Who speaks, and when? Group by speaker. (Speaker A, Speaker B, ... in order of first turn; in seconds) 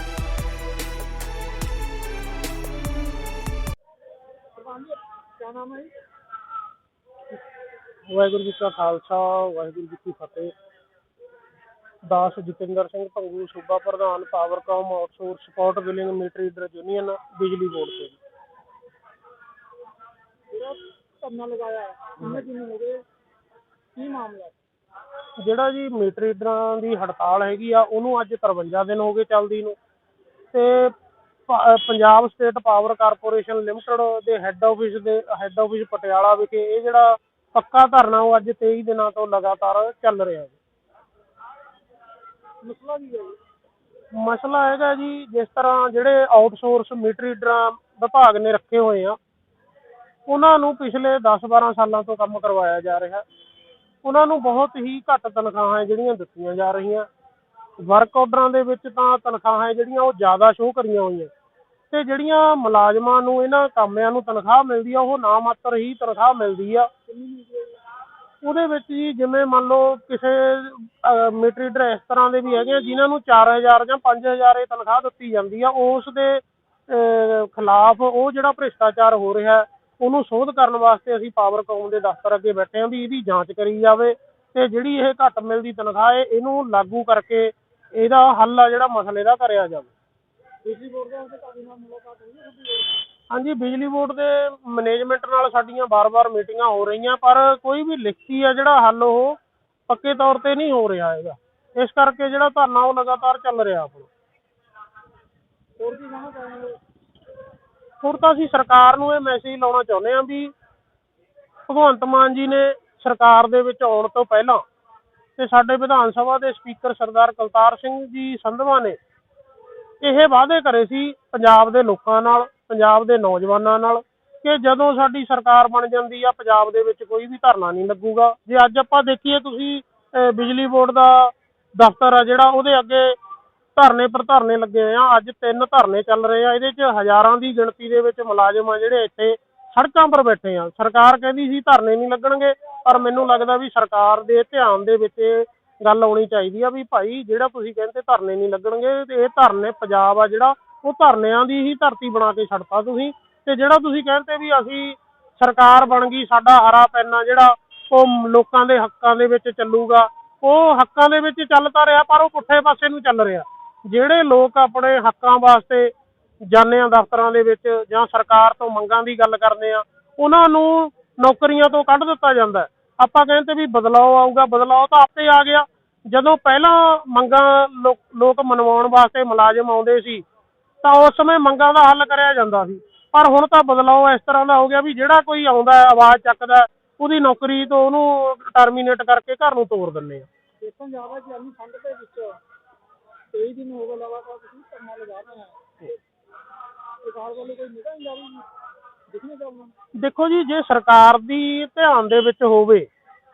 Speaker A: 4.6-5.9, 20.5-23.0, 24.0-24.6, 42.6-43.4, 67.1-67.8, 90.7-92.9, 105.8-106.8, 190.6-192.4, 193.3-195.9, 197.0-198.5, 199.1-199.8
Speaker B: 8.1-10.5, 12.1-18.2, 25.4-29.8, 30.5-30.9, 31.5-40.6, 44.1-49.2, 50.3-53.2, 54.0-57.1, 57.8-61.3, 61.9-66.9, 68.4-89.9, 93.3-99.4, 99.9-104.1, 108.0-110.5, 111.7-114.6, 115.4-119.0, 120.0-133.2, 133.8-165.9, 166.5-180.2, 180.8-190.3, 200.0-202.9